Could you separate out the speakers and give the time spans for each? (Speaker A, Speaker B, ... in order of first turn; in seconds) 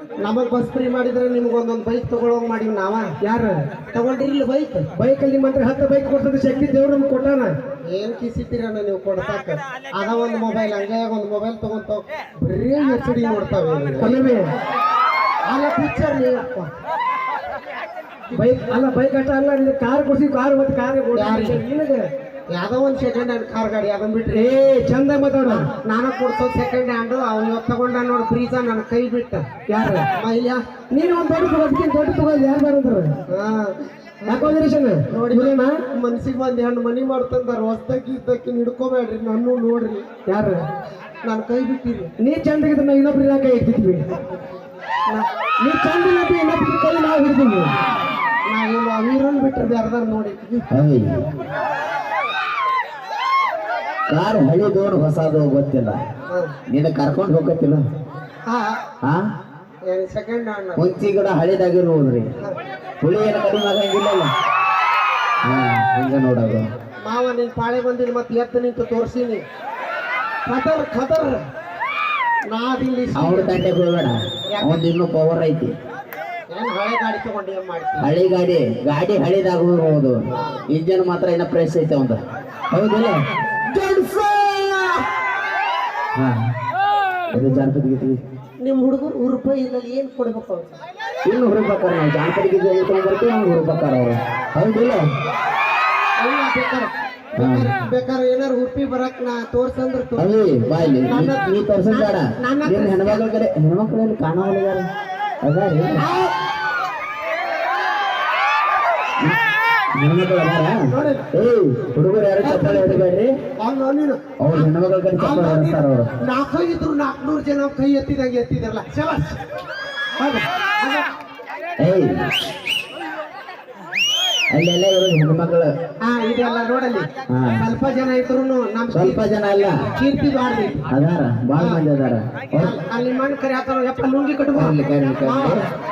Speaker A: 0.2-3.1, 3.9-4.9, 7.9-14.3, 15.5-16.7, 21.1-21.6, 22.5-24.5, 25.4-29.5, 30.1-30.6, 33.3-40.0, 41.2-42.1, 48.5-50.7, 56.3-56.5, 58.5-58.8, 59.9-60.9, 67.0-69.4, 70.5-71.4, 72.5-73.7, 74.5-74.8, 76.5-78.1, 80.3-80.6, 83.7-85.0, 87.3-87.7, 88.6-90.7, 96.2-103.2, 106.0-106.3, 110.9-111.3, 112.4-113.0, 113.6-114.2, 115.2-119.4, 120.2-121.1, 126.0-129.2, 129.8-130.9, 131.6-131.8, 132.6-135.7
Speaker B: 3.2-3.6, 5.0-7.5, 14.0-14.5, 18.3-22.1, 24.3-25.7, 29.7-30.1, 30.9-33.1, 34.3-35.7, 40.3-40.6, 42.2-44.1, 45.6-47.7
Speaker C: 50.7-51.1, 54.1-56.0, 56.7-57.8, 60.8-62.3, 63.0-64.3, 65.4-66.7, 73.2-75.7, 78.0-82.2, 82.7-83.2, 87.3-88.2, 91.2-95.0, 97.4-97.7, 100.2-104.9, 105.4-106.0, 110.0-110.8, 111.3-113.3, 114.4-116.1, 121.8-122.3, 124.5-125.7, 127.3-127.6, 128.9-129.8, 130.9-132.8, 134.6-135.6